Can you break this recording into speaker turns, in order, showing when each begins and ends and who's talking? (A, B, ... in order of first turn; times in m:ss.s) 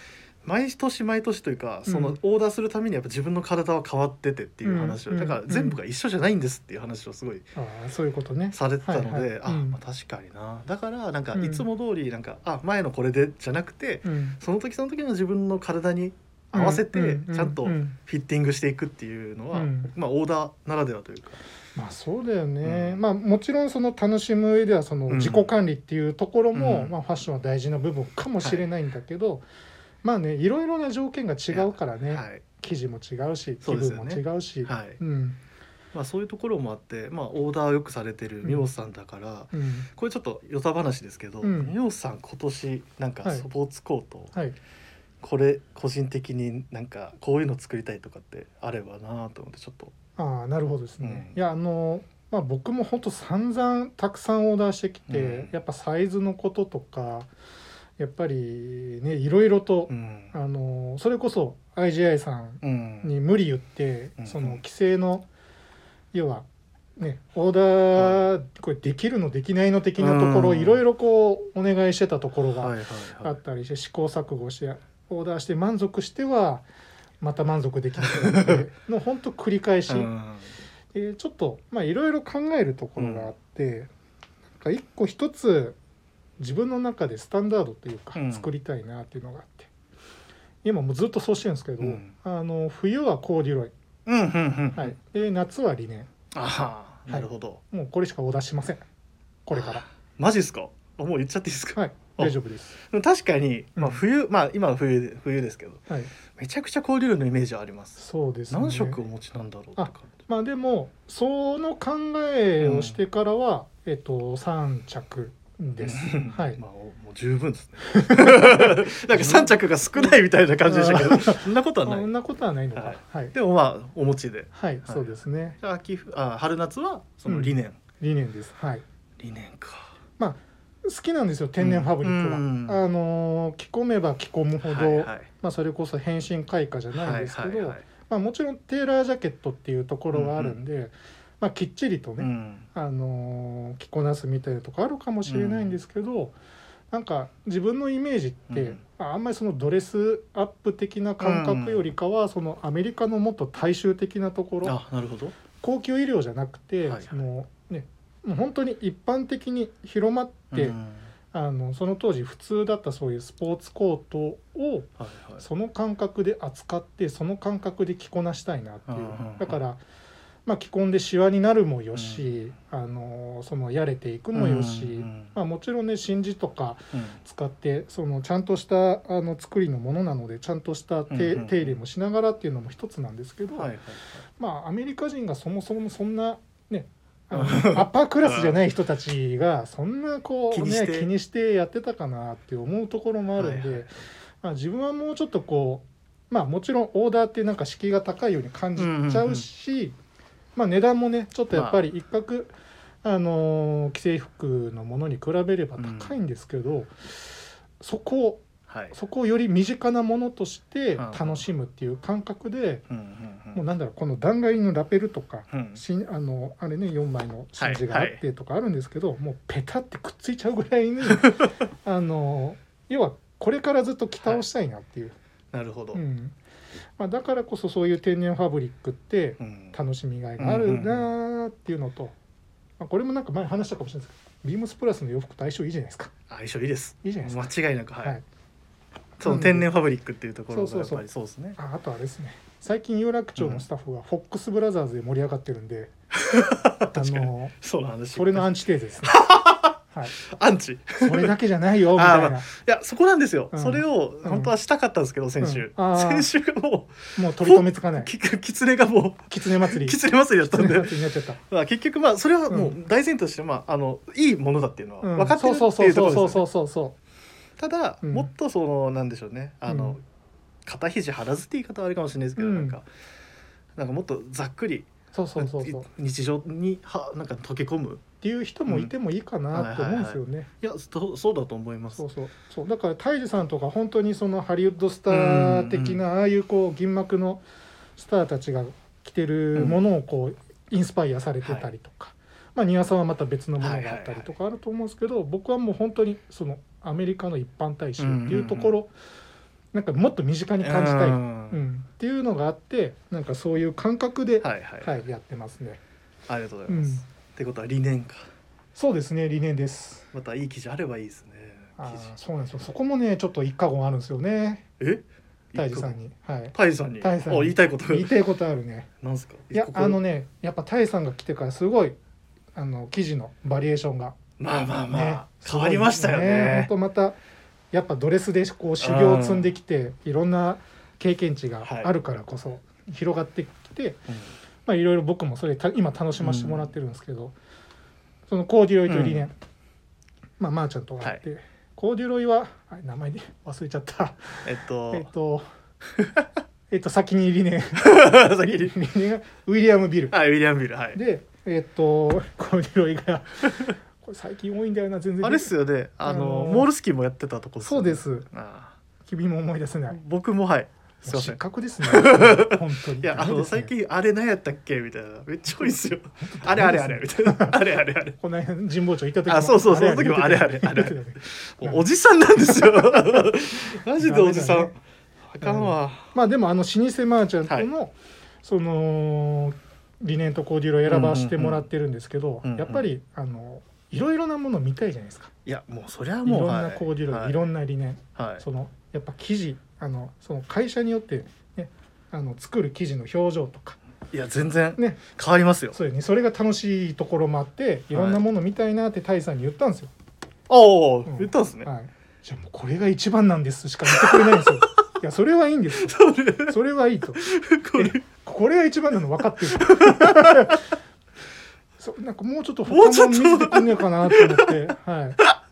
0:00.4-0:07.5 A
0:01.9-0:02.2 B
0:04.6-0:05.8 B
0:07.6-0:09.8 B
0:08.5-0:21.4 A
0:11.4-0:11.7 B
0:14.0-0:14.4 B
0:16.5-0:18.0 B
0:19.5-0:19.9 B
0:21.8-0:29.4 B
0:22.6-0:23.0 A
0:25.1-0:25.5 A
0:26.5-0:26.9 A
0:30.0-0:35.4 B
0:31.5-0:32.4 A
0:33.6-0:35.0 A
0:35.9-0:44.4 A
0:39.5-0:39.9 B
0:41.4-0:41.8 B
0:45.2-0:49.9 A
0:50.2-0:57.3 B
0:51.0-0:51.3 A
0:55.1-0:55.5 A
0:58.0-1:05.3 B
0:59.9-1:00.3 A
1:02.6-1:03.1 A
1:04.2-1:04.6 A
1:06.1-1:06.5 B
1:07.0-1:16.7 B
1:08.0-1:08.2 A
1:10.0-1:10.8 A
1:12.6-1:13.4 A
1:17.2-1:20.1 B
1:18.0-1:18.6 A
1:19.9-1:20.6 A
1:20.9-1:23.9 B
1:23.0-1:23.3 A
1:24.6-1:25.8 B
1:26.4-1:29.7 B
1:28.2-1:28.5 A
1:30.6-1:33.7 B
1:31.8-1:32.1 A
1:34.1-1:35.0 A
1:34.8-1:36.1 B
1:36.3-1:37.6 A
1:37.1-1:38.8 B
1:39.5-1:39.8 B
1:39.5-1:50.2 A
1:41.8-1:42.8 B
1:48.0-1:49.0 B
1:49.8-1:56.6 B
1:52.6-1:53.0 A
1:55.8-2:02.1 A
1:57.9-2:03.3 B
2:02.8-2:07.8 A
2:04.5-2:05.6 B
2:07.3-2:08.8 B
2:09.2-2:10.0 A
2:10.2-2:26.4 B
2:11.6-2:12.8 A
2:14.6-2:15.3 A
2:16.9-2:17.8 A
2:20.1-2:20.6 A
2:22.2-2:22.7 A
2:25.2-2:25.8 A
2:26.9-2:34.8 B
2:28.5-2:28.8 A
2:31.2-2:31.9 A
2:34.6-2:35.4 A
2:35.6-2:40.8 B
2:36.8-2:37.2 A
2:40.5-2:41.1 A
2:41.3-2:44.9 B
2:45.0-2:45.4 A
2:45.4-2:49.8 B
2:48.9-2:49.6 A
2:50.5-3:03.7 B
2:51.9-2:52.3 A
2:54.3-2:55.3 A
2:56.9-2:57.2 A
3:01.1-3:01.8 A
3:03.6-3:04.2 A
3:04.4-3:20.0 B
3:07.3-3:08.6 A
3:10.5-3:11.1 A
3:13.4-3:14.0 A
3:18.8-3:19.5 A
3:20.6-3:32.8 B
3:21.5-3:21.8 A
3:25.8-3:26.2 A
3:28.7-3:29.0 A
3:31.0-3:31.4 A
3:32.9-3:33.6 A
3:33.5-3:45.2 B
3:35.5-3:35.8 A
3:37.6-3:38.2 A
3:41.1-3:41.5 A
3:45.5-3:46.0 A
3:45.9-3:46.4 B
3:47.0-3:52.2 B
3:49.4-3:49.8 A
3:50.4-3:51.1 A
3:52.8-3:56.1 B
3:56.3-3:58.2 A
3:57.0-3:57.5 B
3:59.2-4:01.6 A
3:59.2-3:59.7 B
4:00.5-4:01.0 B
4:01.6-4:05.9 B
4:03.4-4:03.6 A
4:06.1-4:08.5 A
4:06.9-4:07.5 B
4:08.1-4:09.2 B
4:09.0-4:11.4 A
4:11.0-4:12.5 B
4:12.0-4:26.4 A
4:13.5-4:14.5 B
4:15.4-4:16.3 B
4:17.2-4:18.1 B
4:19.3-4:21.4 B
4:22.5-4:22.8 B
4:25.0-4:27.0 B
4:27.6-4:30.0 A
4:28.0-4:28.3 B
4:29.7-4:30.0 B
4:30.7-4:32.9 A
4:32.4-4:32.8 B
4:33.8-4:38.0 A
4:35.1-4:35.9 B
4:38.2-4:40.5 B
4:38.7-4:38.9 A
4:39.5-4:42.0 A
4:42.0-4:47.4 B
4:45.1-4:46.0 A
4:48.0-4:58.9 B
4:51.4-4:51.7 A
4:53.6-4:54.3 A
4:58.0-4:58.7 A
4:59.7-5:05.8 B
5:00.6-5:01.6 A
5:04.4-5:05.0 A
5:06.3-5:08.3 A
5:06.7-5:07.0 B
5:08.8-5:10.1 B
5:10.1-5:12.1 A
5:11.8-5:14.7 B
5:14.8-5:16.0 A
5:15.6-5:18.9 B
5:16.5-5:18.1 A
5:19.0-5:20.0 A
5:19.5-5:22.0 B
5:22.6-5:24.2 B
5:24.4-5:26.7 A
5:24.9-5:27.2 B
5:27.7-5:34.0 B
5:28.8-5:29.5 A
5:31.6-5:31.9 A
5:34.7-5:37.4 B
5:36.2-5:36.7 A
5:38.3-5:39.3 B
5:38.9-5:39.3 A
5:40.4-5:45.4 B
5:44.4-5:45.1 A
5:46.0-5:46.3 A
5:46.7-5:50.2 B
5:47.8-5:48.7 A
5:50.1-5:51.0 A
5:50.9-5:55.5 B
5:55.2-5:58.8 A
5:56.0-5:56.7 B
5:57.6-5:58.3 B
5:59.0-6:00.0 B
5:59.9-6:08.2 A
6:01.0-6:03.7 B
6:06.2-6:07.6 B
6:08.2-6:11.9 B
6:09.3-6:16.1 A
6:12.4-6:13.3 B
6:14.0-6:14.7 B
6:15.4-6:25.3 B
6:20.9-6:21.6 A
6:22.4-6:22.9 A
6:25.5-6:27.5 A
6:26.2-6:33.8 B
6:28.2-6:28.4 A
6:34.1-6:35.8 A
6:35.7-6:39.9 B
6:37.9-6:38.2 A
6:40.5-6:41.7 A
6:41.1-6:47.2 B
6:43.9-6:44.7 A
6:45.8-6:46.6 A
6:47.2-6:48.0 A
6:47.8-6:50.6 B
6:49.6-6:50.6 A
6:51.8-6:55.2 B
6:52.7-6:54.6 A